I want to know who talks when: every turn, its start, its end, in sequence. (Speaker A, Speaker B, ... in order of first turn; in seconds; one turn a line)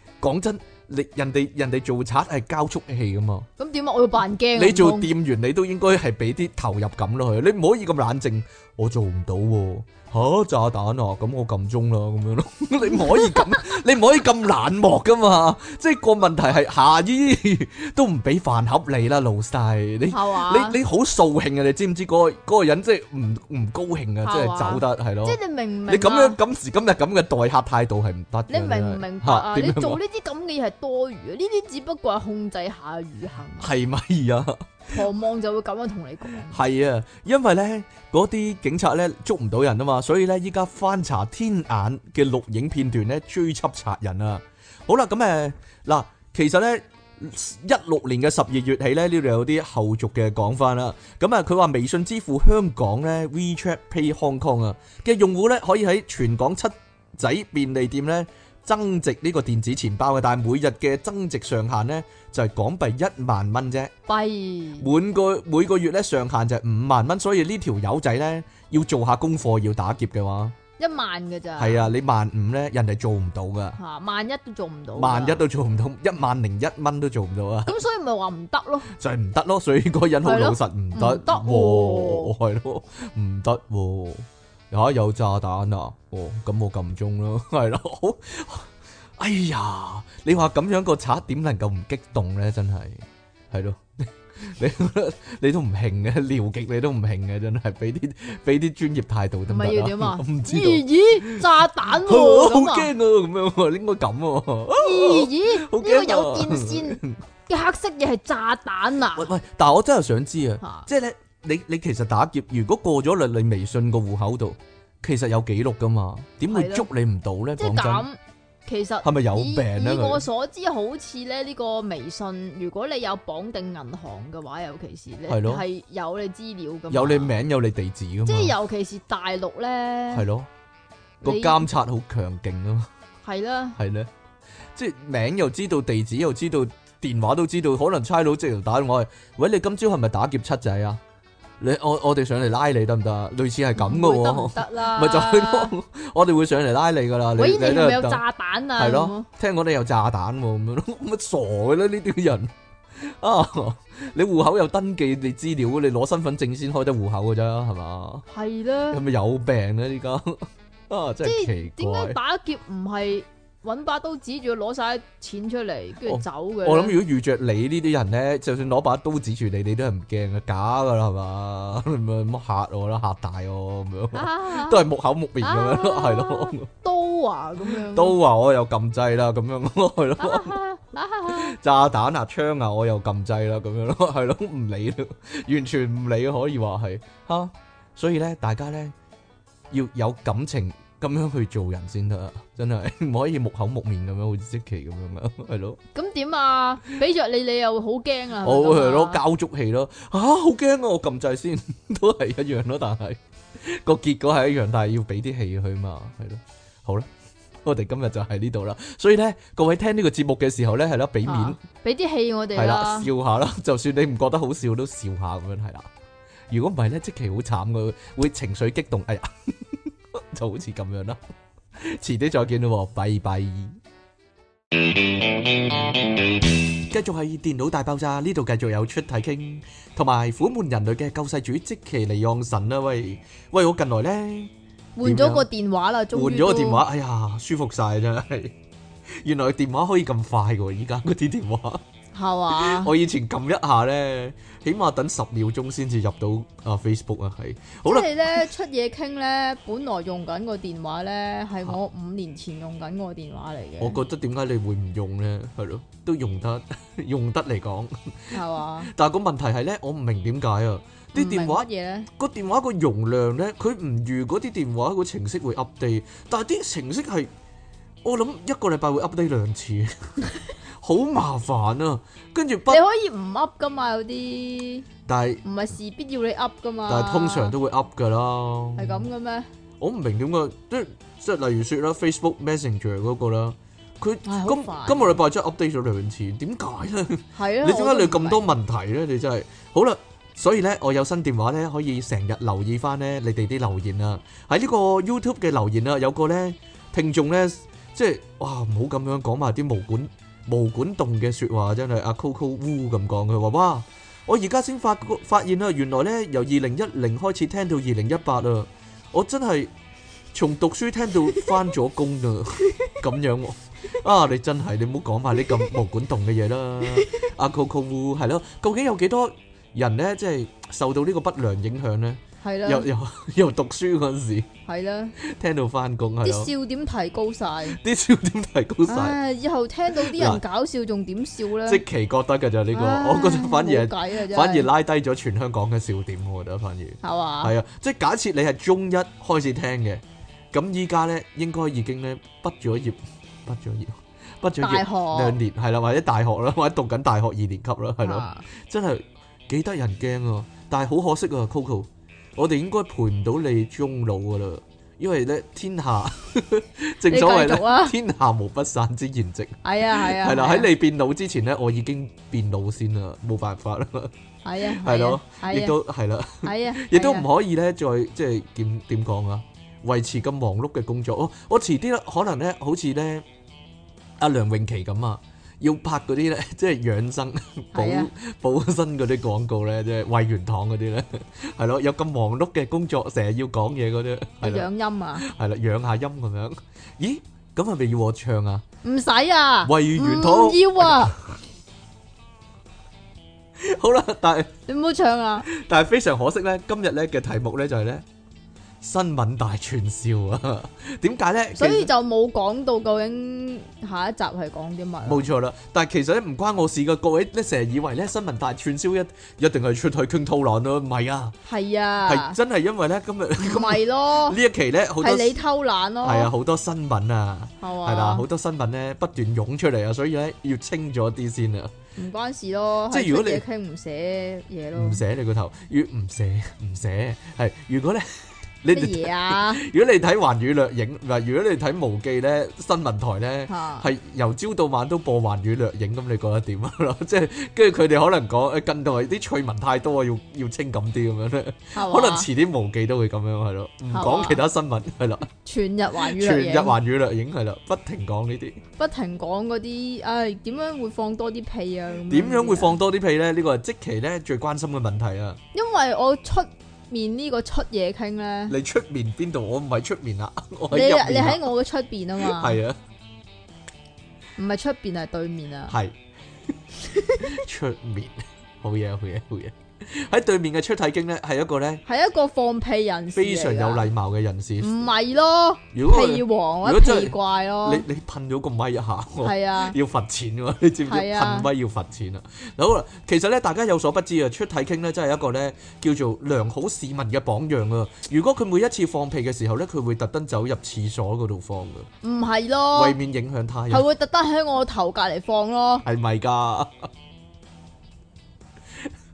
Speaker A: 0.2-3.5
Speaker B: 3.6-5.1
Speaker A: 4.5-30.0
Speaker B: 12.8-13.6
Speaker B: 20.1-20.8
Speaker B: 24.2-26.4
Speaker B: 28.5-33.7
Speaker A: 33.6-34.6
Speaker B: 34.9-36.6
Speaker A: 36.5-63.9
Speaker B: 64.1-64.9
Speaker A: 64.8-70.5
Speaker B: 70.8-72.0
Speaker A: 71.6-73.8
Speaker B: 73.8-75.4
Speaker A: 75.0-77.8
Speaker B: 77.7-78.9
Speaker A: 78.9-107.2
Speaker B: 80.2-82.3
Speaker B: 99.5-102.9
Speaker B: 104.7-109.3
Speaker A: 109.2-118.0
Speaker B: 110.6-110.9
Speaker B: 116.5-116.9
Speaker B: 117.6-127.3
Speaker A: 119.0-120.2
Speaker A: 125.3-125.6
Speaker A: 126.9-128.5
Speaker B: 128.2-130.3
Speaker A: 130.1-130.5
Speaker A: 131.2-132.9
Speaker B: 131.2-131.7
Speaker B: 133.2-133.8
Speaker A: 133.8-134.1
Speaker A: 134.7-141.0
Speaker A: 141.6-148.2
Speaker B: 143.8-145.7
Speaker B: 147.4-149.3
Speaker A: 148.8-158.2
Speaker B: 158.3-159.0
Speaker A: 158.9-162.2
Speaker B: 161.2-167.0
Speaker A: 166.0-176.7
Speaker B: 174.1-174.9
Speaker B: 175.4-178.2
Speaker A: 177.6-180.6
Speaker B: 180.2-181.6
Speaker A: 181.2-188.9
Speaker A: 189.7-195.8
Speaker B: 195.9-199.2
Speaker A: 198.4-207.1
Speaker A: 207.6-211.6
Speaker B: 211.2-213.1
Speaker A: 212.5-215.9
Speaker A: 216.5-221.2
Speaker A: 221.8-223.8
Speaker A: 226.8-234.5
Speaker B: 234.9-236.8
Speaker A: 235.0-235.5
Speaker A: 236.1-238.5
Speaker A: 239.2-241.8
Speaker B: 242.1-242.9
Speaker A: 242.5-248.4
Speaker B: 247.9-254.0
Speaker A: 253.8-267.3
Speaker B: 258.3-258.9
Speaker B: 261.1-262.1
Speaker A: 268.0-270.1
Speaker A: 270.8-272.8
Speaker B: 272.7-274.9
Speaker A: 275.1-275.4
Speaker B: 275.4-277.5
Speaker A: 276.9-279.1
Speaker B: 278.8-279.5
Speaker A: 279.8-309.7
Speaker B: 284.2-285.2
Speaker B: 287.3-288.4
Speaker A: 310.3-324.5
Speaker B: 322.4-322.9
Speaker B: 324.6-325.1
Speaker A: 325.2-326.5
Speaker B: 326.2-327.8
Speaker A: 327.7-329.2
Speaker B: 328.9-331.8
Speaker A: 329.9-330.4
Speaker A: 331.6-364.1
Speaker B: 332.7-334.7
Speaker B: 337.0-337.5
Speaker B: 344.6-345.4
Speaker B: 348.0-348.4
Speaker B: 357.1-357.9
Speaker B: 359.6-360.7
Speaker B: 364.4-365.8
Speaker A: 364.6-373.2
Speaker B: 366.4-367.3
Speaker A: 374.2-384.7
Speaker B: 377.7-378.1
Speaker B: 384.4-385.2
Speaker A: 385.2-388.6
Speaker B: 388.8-391.1
Speaker A: 389.6-391.4
Speaker A: 393.6-394.5
Speaker B: 394.7-395.5
Speaker A: 395.5-398.0
Speaker A: 398.8-401.9
Speaker B: 401.6-405.3
Speaker A: 405.0-411.3
Speaker B: 411.4-412.4
Speaker A: 412.0-415.4
Speaker B: 413.4-414.4
Speaker B: 415.0-416.3
Speaker A: 416.0-421.7
Speaker B: 417.6-418.2
Speaker B: 421.9-425.0
Speaker A: 422.9-423.4
Speaker A: 424.7-445.3
Speaker B: 428.7-429.6
Speaker B: 433.5-433.9
Speaker B: 441.7-442.3
Speaker B: 443.9-444.4
Speaker B: 445.4-446.8
Speaker A: 446.0-448.6
Speaker B: 448.8-452.8
Speaker A: 452.1-455.4
Speaker B: 455.5-458.6
Speaker A: 458.5-461.4
Speaker B: 460.7-462.6
Speaker A: 462.2-462.8
Speaker B: 464.4-465.8
Speaker A: 465.7-466.0
Speaker B: 466.8-467.4
Speaker A: 467.2-471.8
Speaker B: 471.9-473.9
Speaker A: 473.1-474.9
Speaker B: 474.6-477.8
Speaker A: 475.7-491.9
Speaker B: 479.2-479.8
Speaker B: 480.9-481.5
Speaker B: 492.0-492.9
Speaker A: 492.7-493.9
Speaker B: 493.7-495.9
Speaker A: 495.8-496.9